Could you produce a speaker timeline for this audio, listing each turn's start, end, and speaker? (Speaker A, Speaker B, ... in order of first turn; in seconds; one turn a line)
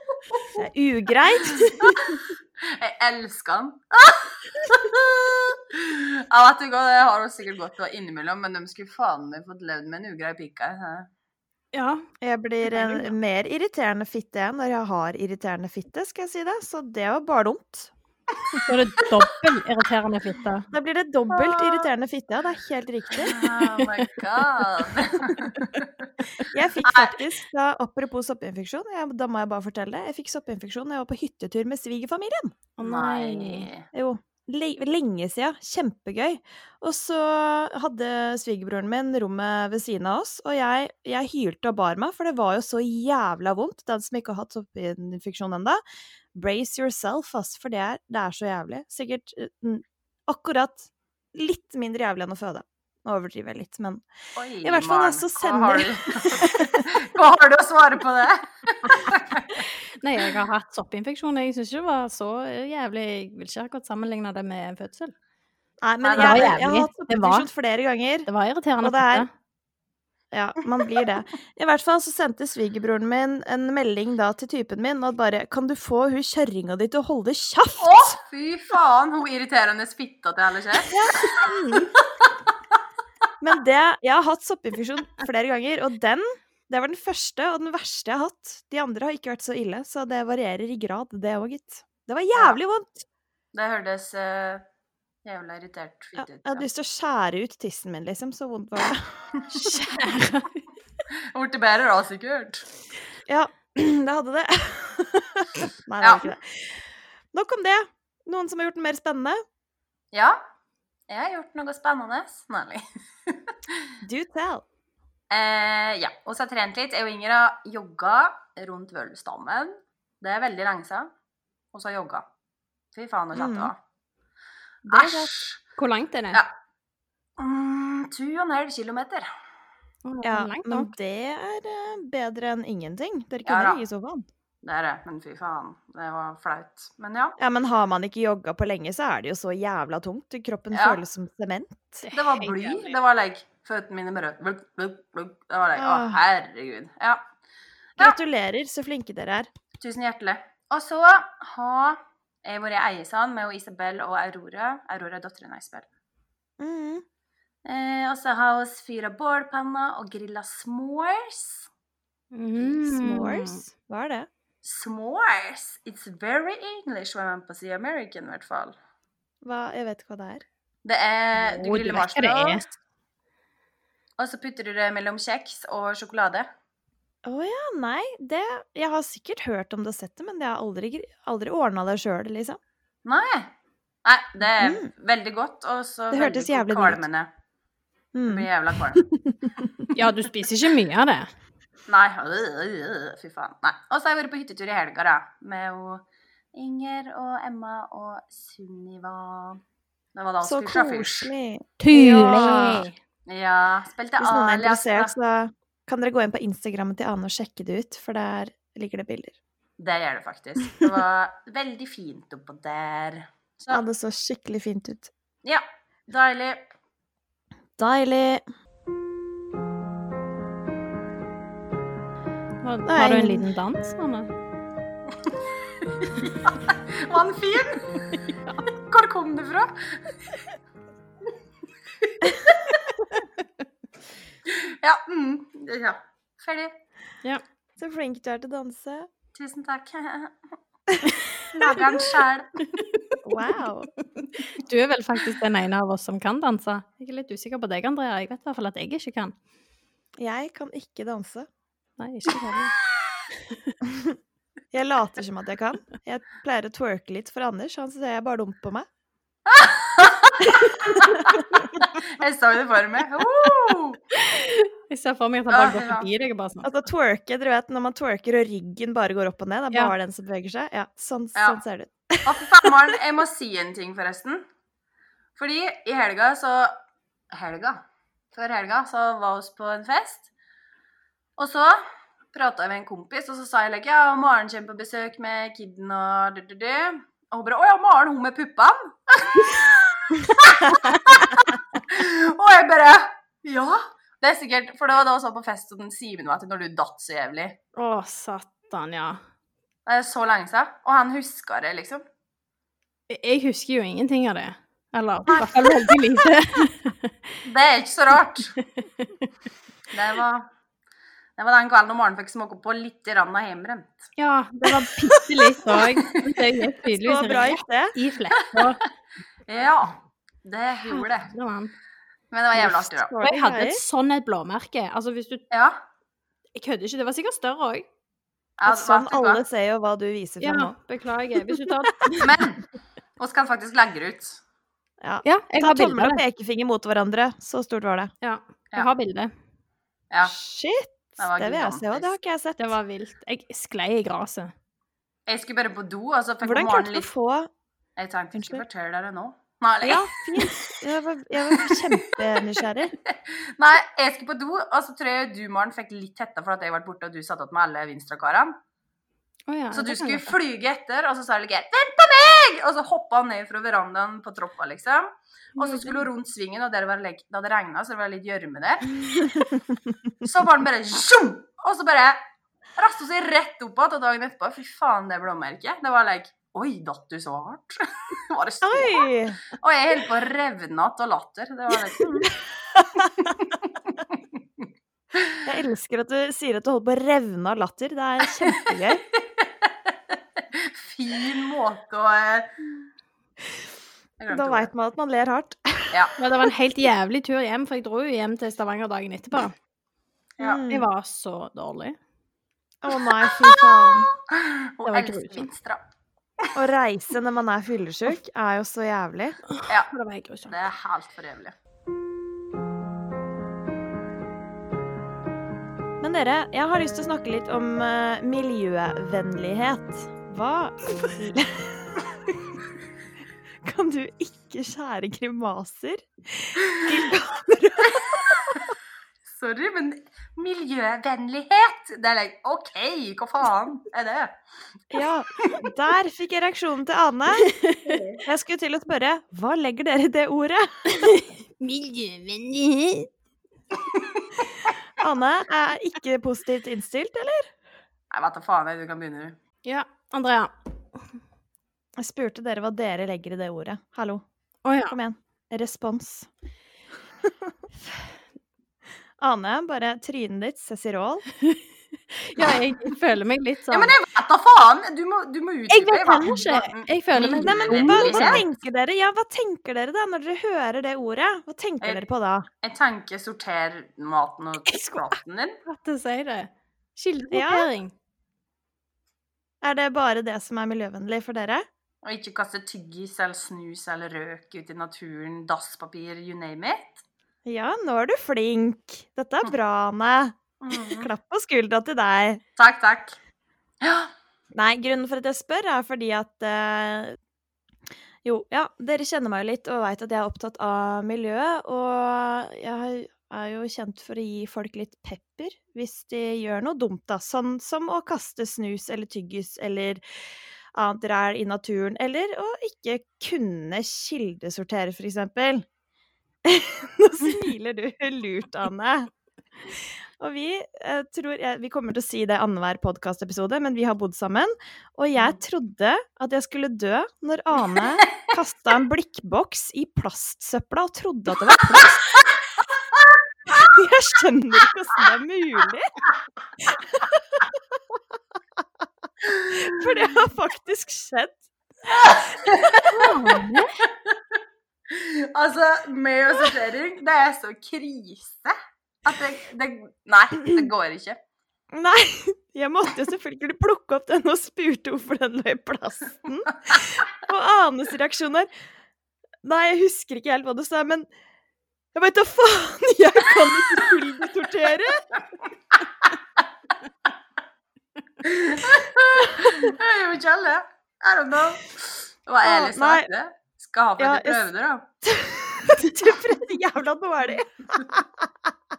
Speaker A: 0.5-2.2
Speaker B: 1.6-11.1
Speaker C: 11.7-12.0
Speaker A: 12.2-17.9
Speaker C: 12.7-13.1
Speaker C: 18.6-20.7
Speaker A: 20.7-23.4
Speaker B: 21.3-21.9
Speaker B: 23.1-27.2
Speaker A: 26.5-32.5
Speaker C: 32.8-33.7
Speaker B: 32.8-33.9
Speaker A: 33.9-45.8
Speaker A: 46.3-54.0
Speaker B: 54.4-59.6
Speaker A: 54.6-56.9
Speaker C: 60.0-65.1
Speaker A: 65.8-68.3
Speaker B: 66.0-66.5
Speaker C: 66.2-67.5
Speaker C: 68.3-69.3
Speaker A: 68.8-69.3
Speaker A: 70.3-78.2
Speaker B: 77.8-82.3
Speaker A: 80.9-81.9
Speaker A: 83.4-93.0
Speaker B: 93.5-94.6
Speaker B: 95.2-96.6
Speaker A: 96.4-99.8
Speaker C: 99.6-100.5
Speaker B: 101.1-102.7
Speaker A: 103.3-106.8
Speaker B: 106.0-106.3
Speaker A: 107.3-109.4
Speaker B: 110.1-110.4
Speaker B: 111.1-113.8
Speaker A: 114.0-114.6
Speaker B: 115.3-121.1
Speaker B: 121.7-122.2
Speaker B: 122.9-123.8
Speaker A: 123.3-123.7
Speaker A: 124.8-125.3
Speaker B: 124.9-125.6
Speaker C: 125.8-126.4
Speaker B: 127.4-129.3
Speaker C: 130.0-130.9
Speaker A: 130.2-134.2
Speaker B: 133.4-133.8
Speaker B: 134.6-137.4
Speaker A: 137.4-142.1
Speaker B: 140.7-141.0
Speaker C: 142.0-142.9
Speaker B: 142.1-147.2
Speaker A: 145.8-146.2
Speaker A: 148.0-149.5
Speaker B: 149.8-155.9
Speaker A: 156.6-157.0
Speaker B: 157.6-161.7
Speaker C: 162.3-163.6
Speaker A: 162.8-164.3
Speaker B: 164.6-168.8
Speaker A: 169.4-170.4
Speaker B: 170.8-172.7
Speaker C: 171.5-172.6
Speaker B: 174.2-176.5
Speaker A: 177.2-182.6
Speaker B: 183.0-183.5
Speaker B: 184.0-187.3
Speaker A: 184.6-184.9
Speaker A: 186.1-187.0
Speaker A: 188.1-189.9
Speaker B: 188.2-189.0
Speaker C: 189.9-191.3
Speaker B: 191.9-199.6
Speaker B: 200.1-201.3
Speaker A: 200.4-202.9
Speaker C: 201.8-202.9
Speaker B: 202.4-205.1
Speaker A: 204.2-209.4
Speaker B: 209.8-213.8
Speaker A: 213.7-215.1
Speaker B: 215.4-216.7
Speaker A: 217.8-218.4
Speaker C: 222.6-224.3
Speaker A: 222.8-223.5
Speaker B: 225.2-228.2
Speaker B: 228.8-230.2
Speaker B: 232.0-232.9
Speaker B: 234.5-236.8
Speaker A: 237.8-239.1
Speaker B: 239.3-240.4
Speaker B: 241.5-242.8
Speaker A: 243.2-243.9
Speaker C: 244.5-249.3
Speaker A: 250.2-251.5
Speaker C: 252.0-252.8
Speaker C: 253.4-253.7
Speaker A: 253.8-254.2
Speaker A: 254.7-258.9
Speaker B: 259.5-264.0
Speaker C: 264.1-266.7
Speaker B: 265.5-266.1
Speaker A: 266.6-272.7
Speaker B: 271.3-271.6
Speaker B: 272.2-274.4
Speaker B: 275.4-276.7
Speaker B: 277.3-277.8
Speaker B: 278.3-280.3
Speaker B: 281.4-297.6
Speaker C: 297.8-299.2
Speaker B: 299.9-302.0
Speaker C: 303.1-307.1
Speaker B: 307.4-308.5
Speaker C: 308.8-309.1
Speaker B: 309.9-310.5
Speaker B: 311.4-314.1
Speaker C: 314.2-318.8
Speaker B: 315.7-316.4
Speaker A: 316.9-317.9
Speaker B: 319.5-321.3
Speaker C: 320.8-321.7
Speaker B: 322.3-323.1
Speaker A: 322.6-323.8
Speaker C: 323.2-325.4
Speaker B: 325.5-325.8
Speaker C: 326.5-327.9
Speaker B: 328.6-329.4
Speaker A: 328.6-330.8
Speaker C: 330.4-332.4
Speaker A: 331.3-332.1
Speaker B: 332.2-332.7
Speaker B: 333.2-334.4
Speaker A: 335.0-338.1
Speaker C: 335.2-336.2
Speaker C: 338.2-339.3
Speaker A: 340.2-342.7
Speaker B: 341.2-342.1
Speaker C: 342.6-344.5
Speaker B: 345.3-347.1
Speaker A: 346.4-347.5
Speaker B: 348.0-350.6
Speaker A: 348.4-348.6
Speaker A: 349.8-352.9
Speaker B: 351.5-351.8
Speaker B: 353.0-358.6
Speaker C: 359.5-360.4
Speaker B: 359.7-369.3
Speaker C: 365.6-366.0
Speaker B: 370.2-372.2
Speaker B: 372.8-382.4
Speaker A: 378.6-379.4
Speaker A: 382.7-383.3
Speaker B: 383.0-385.4
Speaker A: 385.4-389.0
Speaker B: 388.6-392.5
Speaker B: 394.2-394.7
Speaker A: 394.3-396.0
Speaker C: 396.2-399.5
Speaker A: 400.4-400.9
Speaker C: 400.7-402.0
Speaker A: 402.8-404.1
Speaker B: 403.2-405.8
Speaker C: 404.9-405.5
Speaker A: 406.5-409.4
Speaker C: 409.5-410.6
Speaker B: 410.4-411.5
Speaker A: 416.0-422.4
Speaker A: 423.6-428.6
Speaker B: 427.9-434.4
Speaker A: 434.9-437.6
Speaker C: 437.4-437.8
Speaker B: 437.8-438.2
Speaker A: 438.2-441.1
Speaker C: 441.0-443.1
Speaker B: 443.7-444.3
Speaker A: 445.0-447.5
Speaker B: 448.1-449.4
Speaker C: 449.6-450.5
Speaker A: 452.0-454.2
Speaker C: 454.6-455.0
Speaker A: 454.9-456.3
Speaker A: 457.2-457.5
Speaker A: 459.2-461.2
Speaker C: 462.1-463.9
Speaker B: 463.7-468.4
Speaker C: 465.7-468.4
Speaker A: 467.4-472.5
Speaker B: 472.6-475.6
Speaker C: 475.6-477.9
Speaker A: 477.3-477.7
Speaker A: 479.6-481.6
Speaker B: 482.0-487.0
Speaker A: 487.4-492.4
Speaker B: 490.6-491.1
Speaker B: 492.6-493.2
Speaker B: 493.8-494.1
Speaker A: 494.5-497.2
Speaker A: 498.2-510.0
Speaker A: 510.7-515.6
Speaker A: 516.4-519.1
Speaker A: 519.7-532.2
Speaker A: 533.5-536.0
Speaker A: 536.6-537.6
Speaker B: 539.2-539.8
Speaker A: 539.5-541.4
Speaker B: 541.9-543.0
Speaker C: 542.9-543.7
Speaker B: 543.8-551.2
Speaker A: 551.7-558.5
Speaker A: 559.4-561.1
Speaker A: 561.9-565.1
Speaker B: 568.2-574.9
Speaker A: 572.4-573.1
Speaker A: 574.0-574.5
Speaker A: 575.0-578.3